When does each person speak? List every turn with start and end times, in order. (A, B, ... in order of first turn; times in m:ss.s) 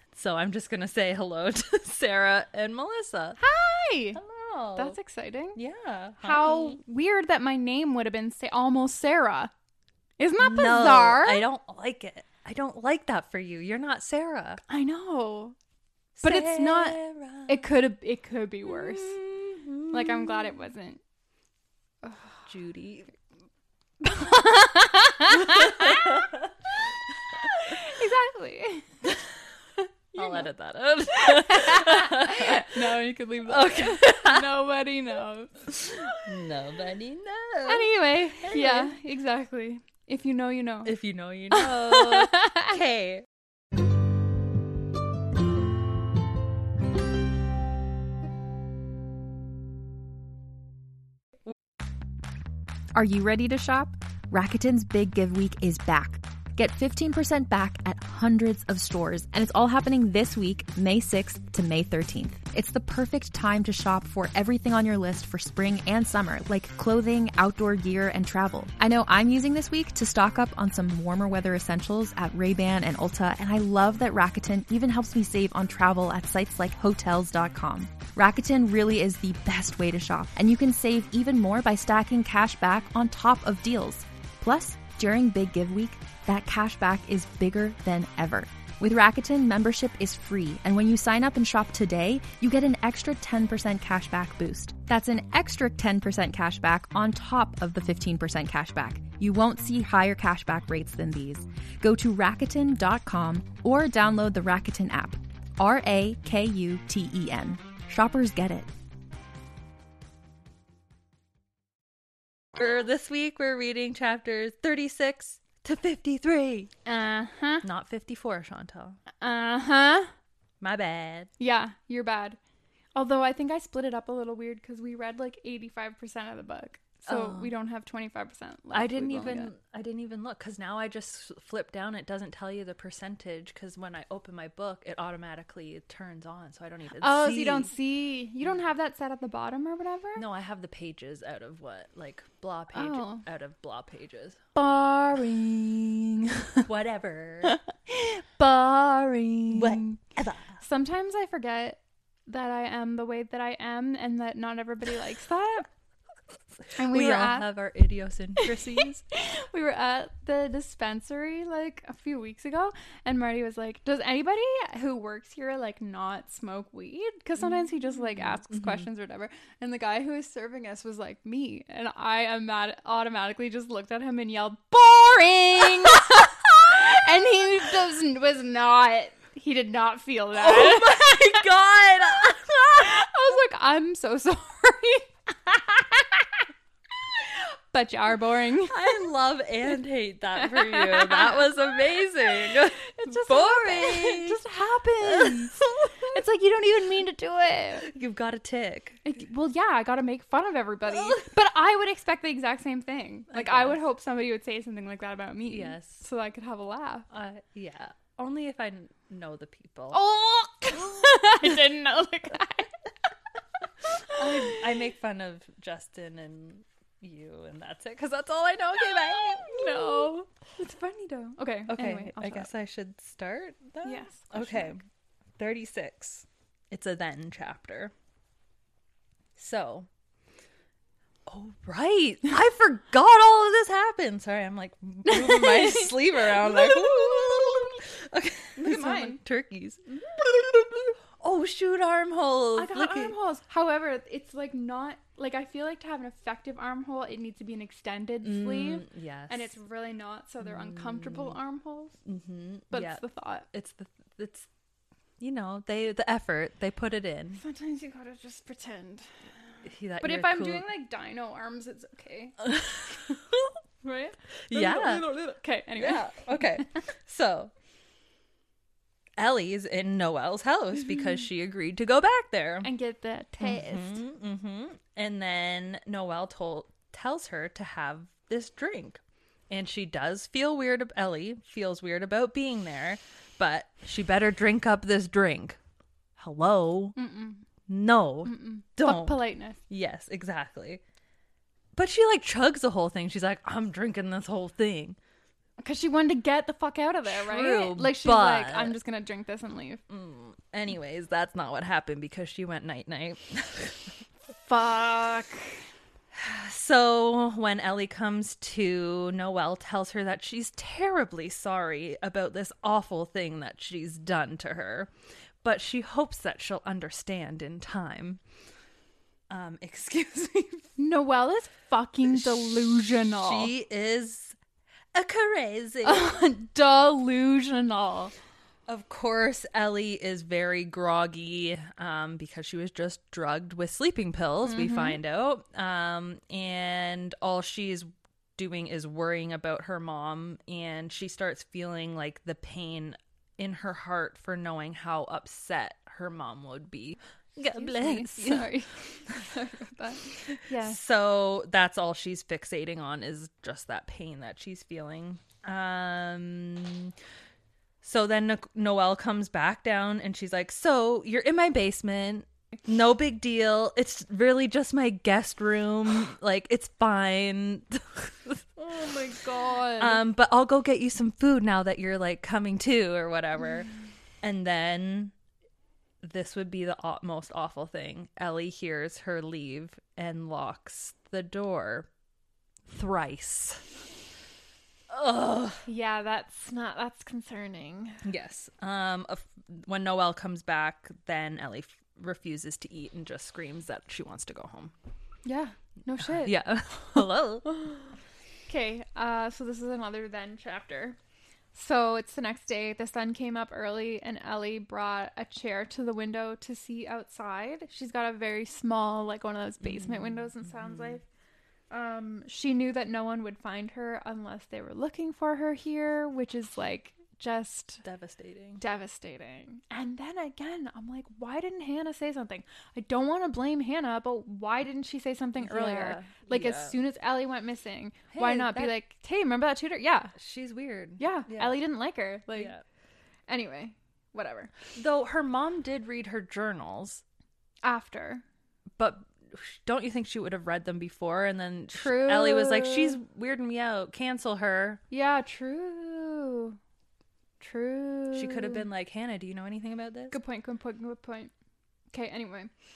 0:00.1-0:03.4 A
0:03.4-0:04.2 B
0:04.1-0:05.0 A
0:04.8-0:05.6 B
0:05.6-0:06.8 A
0:06.2-0:09.5 B
0:10.2-0:11.5 B
0:10.4-0:14.6 A
0:14.7-0:15.6 B
0:16.2-0:17.7 A
0:16.2-0:19.2 B
0:18.7-0:20.6 A
0:19.9-0:21.0 B
0:22.0-0:22.4 B
0:22.5-0:23.1 A
0:24.0-0:26.3 B
0:25.3-0:26.5 A
0:27.4-0:28.9 B
0:30.1-0:30.5 B
0:30.2-0:34.5 A
0:31.1-0:35.5 B
0:35.7-0:38.9 A
0:37.7-0:41.0 B
0:40.8-0:43.3 A
0:41.5-0:42.7 B
0:53.0-1:48.7 C
1:52.6-1:56.7 A
1:56.8-1:57.7 B
1:57.6-1:59.0 A
1:59.2-2:00.1 B
2:00.6-2:01.3 A
2:01.4-2:02.4 B
2:03.0-2:09.5 B
2:07.1-2:07.5 A
2:08.7-2:17.7 A
2:17.0-2:20.2 B
2:20.2-2:24.4 A
2:22.7-2:23.2 B
2:24.6-2:26.6 B
2:26.6-2:27.6 A
2:27.5-2:30.0 B
2:29.5-2:30.6 A
2:30.6-2:35.7 B
2:36.8-2:37.5 B
2:36.8-2:39.0 A
2:38.4-3:01.4 B
2:48.2-2:48.9 A
3:00.3-3:02.9 A
3:02.8-3:06.3 B
3:07.2-3:08.8 B
3:08.7-3:14.4 A
3:10.5-3:11.6 B
3:12.2-3:17.9 B
3:15.0-3:16.2 A
3:17.8-3:19.0 A
3:19.0-3:27.1 B
3:20.9-3:21.3 A
3:23.3-3:23.8 A
3:25.5-3:26.1 A
3:27.1-3:30.0 A
3:29.9-3:32.7 B
3:34.2-3:40.1 A
3:34.2-3:34.6 B
3:39.1-3:42.5 B
3:41.7-3:44.8 A
3:43.8-3:44.8 B
3:45.4-3:47.9 A
3:49.4-3:49.9 A
3:51.3-4:03.2 A
3:55.1-3:57.8 B
3:58.6-3:59.2 B
4:02.6-4:12.0 B
4:08.2-4:09.5 A
4:10.4-4:11.4 A
4:12.1-4:14.5 A
4:12.7-4:13.5 B
4:15.2-4:17.4 A
4:17.4-4:19.1 B
4:19.6-4:20.7 A
4:20.0-4:22.5 B
4:22.4-4:23.2 A
4:23.8-4:26.6 B
4:24.5-4:25.1 A
4:25.8-4:27.5 A
4:29.2-4:32.7 A
4:32.6-4:34.0 B
4:33.4-4:45.6 A
4:46.2-4:47.0 A
4:47.0-4:47.5 B
4:47.7-4:50.8 A
4:48.2-4:49.6 B
4:51.8-4:55.0 A
4:55.6-4:59.8 B
4:57.1-4:58.8 A
4:59.9-5:04.0 A
5:04.4-5:05.6 B
5:06.1-5:14.9 A
5:15.4-5:18.2 A
5:19.3-5:20.7 A
5:20.8-5:23.5 B
5:22.1-5:24.4 A
5:24.9-5:26.2 A
5:25.8-5:28.1 B
5:28.7-5:48.5 A
5:34.4-5:35.0 B
5:47.4-5:50.8 B
5:50.3-5:56.9 A
5:57.8-6:08.4 A
6:08.6-6:10.0 B
6:09.8-6:13.7 A
6:14.2-6:15.1 A
6:16.0-6:21.9 A
6:22.7-6:23.6 A
6:24.9-6:25.7 A
6:25.7-6:28.0 B
6:28.0-6:34.7 A
6:35.2-6:36.4 B
6:36.0-6:37.5 A
6:37.0-6:37.8 B
6:38.5-6:41.0 B
6:41.5-6:51.0 B
6:49.6-6:51.0 A
6:51.7-6:57.8 B
6:57.8-6:58.6 A
6:58.6-7:10.1 B
7:05.4-7:06.8 A
7:08.1-7:08.8 A
7:10.2-7:11.6 A
7:11.0-7:12.5 B
7:12.3-7:12.6 A
7:13.3-7:14.7 B
7:14.7-7:17.0 A
7:17.6-7:18.2 B
7:18.8-7:24.8 A
7:21.7-7:23.0 B
7:24.9-7:26.6 B
7:27.4-7:28.7 B
7:28.1-7:30.2 A
7:30.1-7:31.3 B
7:31.9-7:32.5 B